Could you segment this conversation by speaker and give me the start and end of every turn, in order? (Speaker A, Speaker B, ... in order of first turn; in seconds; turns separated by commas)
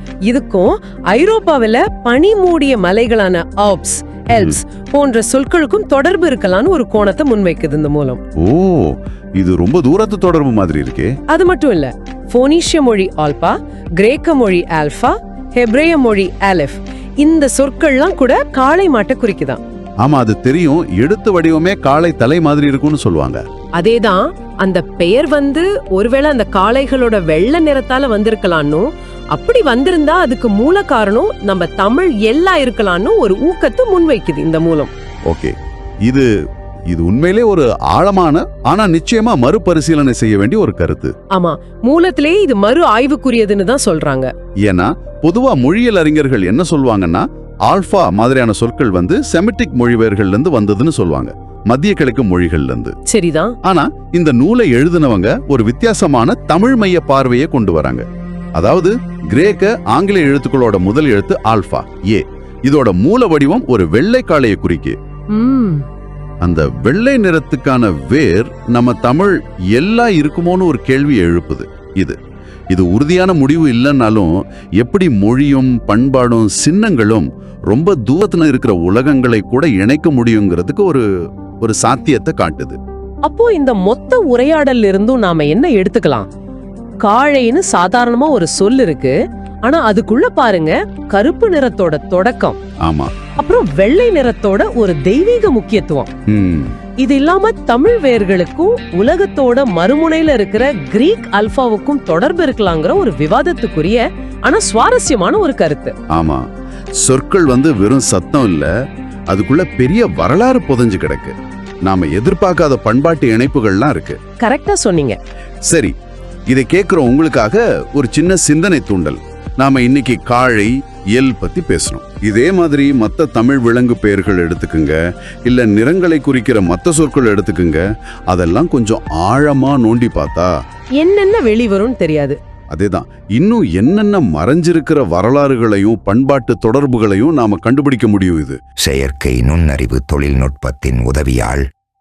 Speaker A: 0.3-8.2, Speaker B: 8.4-11.1, Speaker A: 11.3-19.6, Speaker B: 20.0-23.4, Speaker A: 23.8-34.9, Speaker B: 35.3-35.5, Speaker B: 36.9-41.1, Speaker A: 41.3-44.3, Speaker B: 44.6-52.9, Speaker A: 53.1-53.5, Speaker B: 53.6-58.0, Speaker B: 58.5-65.0, Speaker A: 65.3-65.8, Speaker B: 66.4-72.2, Speaker B: 72.7-81.0, Speaker B: 81.6-82.8, Speaker A: 83.2-86.3, Speaker A: 87.0-92.6, Speaker B: 92.8-93.1, Speaker A: 93.4-96.1, Speaker B: 96.3-96.8, Speaker A: 97.0-105.9, Speaker B: 106.1-106.4, Speaker B: 107.0-108.7, Speaker B: 109.3-114.2, Speaker A: 114.4-115.2, Speaker B: 115.7-115.9, Speaker B: 116.5-130.5, Speaker A: 131.0-132.4, Speaker B: 132.7-138.6, Speaker C: 138.8-141.6